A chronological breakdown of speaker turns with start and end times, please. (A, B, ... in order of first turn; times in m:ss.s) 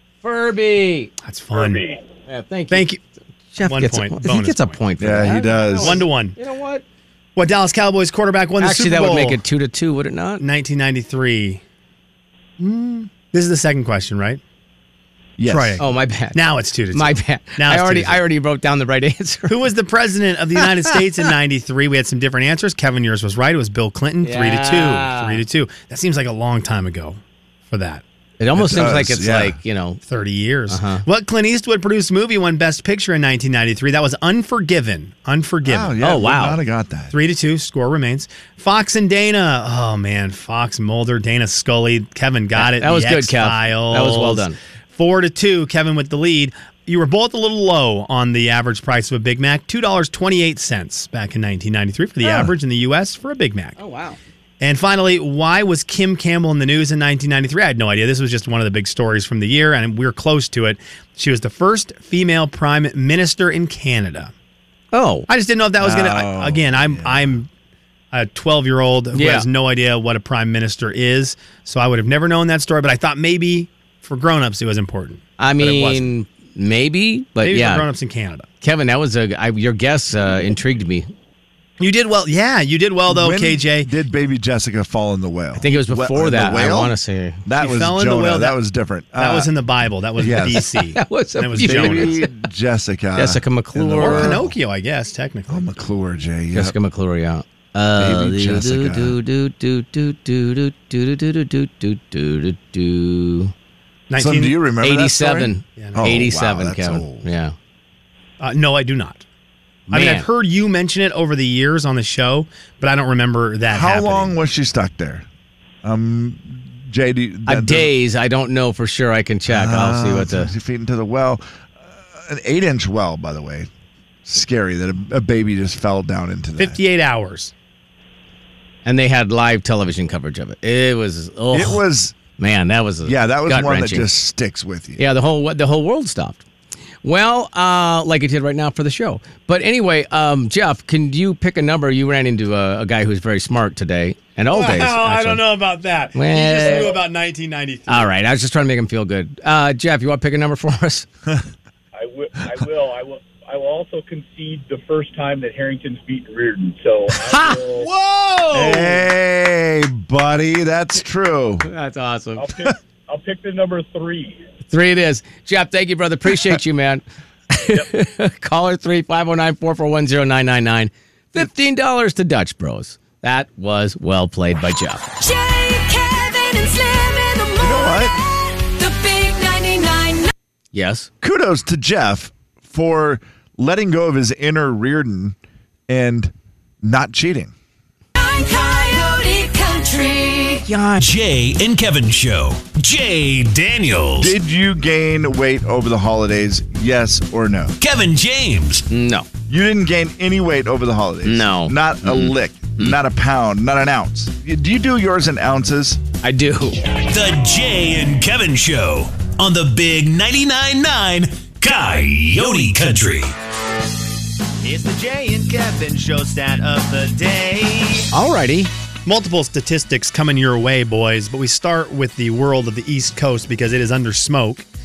0:00.2-0:01.1 A
0:01.2-0:01.8 B
0:01.5-0:02.0 C
0:02.3-0:02.9 A
0:02.7-0:03.0 B
0:03.5-0:06.8 A
0:03.6-0:04.8 B
0:05.0-0:06.0 D
0:05.8-0:06.4 B
0:07.4-0:09.4 B
0:08.6-0:10.4 A
0:10.4-0:11.6 B
0:12.6-0:14.4 B
0:15.4-0:15.8 D
0:15.4-0:18.2 B
0:15.8-0:16.4 A
0:16.9-0:19.7 A
0:19.5-0:28.0 B
0:24.2-0:25.4 A
0:28.4-0:30.0 A
0:28.5-0:29.6 D
0:30.1-0:35.9 B
0:30.7-0:31.0 A
0:35.6-0:37.1 D
0:36.0-0:36.6 A
0:37.1-0:53.8 B
0:42.5-0:44.6 A
0:52.2-0:52.5 A
0:53.8-0:54.2 A
0:54.6-1:04.3 B
1:04.9-1:05.3 A
1:05.3-1:07.5 B
1:05.8-1:07.3 D
1:08.1-1:16.1 B
1:09.1-1:09.4 A
1:15.4-1:17.8 A
1:17.4-1:18.5 B
1:18.6-1:21.1 A
1:21.8-1:23.9 B
1:23.1-1:26.9 D
1:25.6-1:27.4 A
1:27.4-1:29.5 D
1:27.5-1:28.6 B
1:29.2-1:32.2 B
1:30.2-1:30.6 D
1:30.5-1:32.3 A
1:31.6-1:34.5 D
1:33.2-1:34.4 A
1:34.0-1:35.7 B
1:35.5-1:36.8 D
1:36.5-1:43.5 A
1:38.0-1:39.2 D
1:44.1-1:44.6 B
1:44.2-1:47.3 D
1:44.8-1:47.5 A
1:45.8-1:46.0 B
1:48.4-1:49.2 B
1:49.9-1:50.2 A
1:49.9-1:54.4 B
1:53.7-1:55.2 D
1:55.8-1:57.9 D
1:57.5-2:00.5 A
1:59.5-2:03.7 D
2:04.2-2:06.8 D
2:06.6-2:07.5 B
2:08.8-2:11.8 A
2:11.5-2:12.2 D
2:12.4-2:14.1 A
2:13.0-2:15.0 D
2:15.0-2:16.4 A
2:17.0-2:25.4 A
2:24.5-2:28.1 B
2:26.1-2:27.0 A
2:26.6-2:26.9 C
2:27.9-2:31.1 A
2:31.9-2:37.9 C
2:37.2-2:39.0 A
2:38.5-2:41.7 D
2:41.6-2:42.5 A
2:42.4-2:44.4 C
2:44.7-2:55.1 A
2:55.2-3:00.3 E
2:57.6-2:58.1 D
3:00.7-3:01.1 A
3:01.2-3:05.4 D
3:05.9-3:07.5 D
3:08.2-3:10.7 E
3:10.6-3:11.0 A
3:11.0-3:14.3 F
3:14.2-3:17.7 D
3:17.8-3:18.8 F
3:18.9-3:19.3 A
3:19.5-3:26.0 D
3:21.2-3:22.9 A
3:26.2-3:26.8 A
3:26.9-3:33.3 F
3:34.6-3:38.1 G
3:38.1-3:38.7 A
3:39.0-3:44.7 B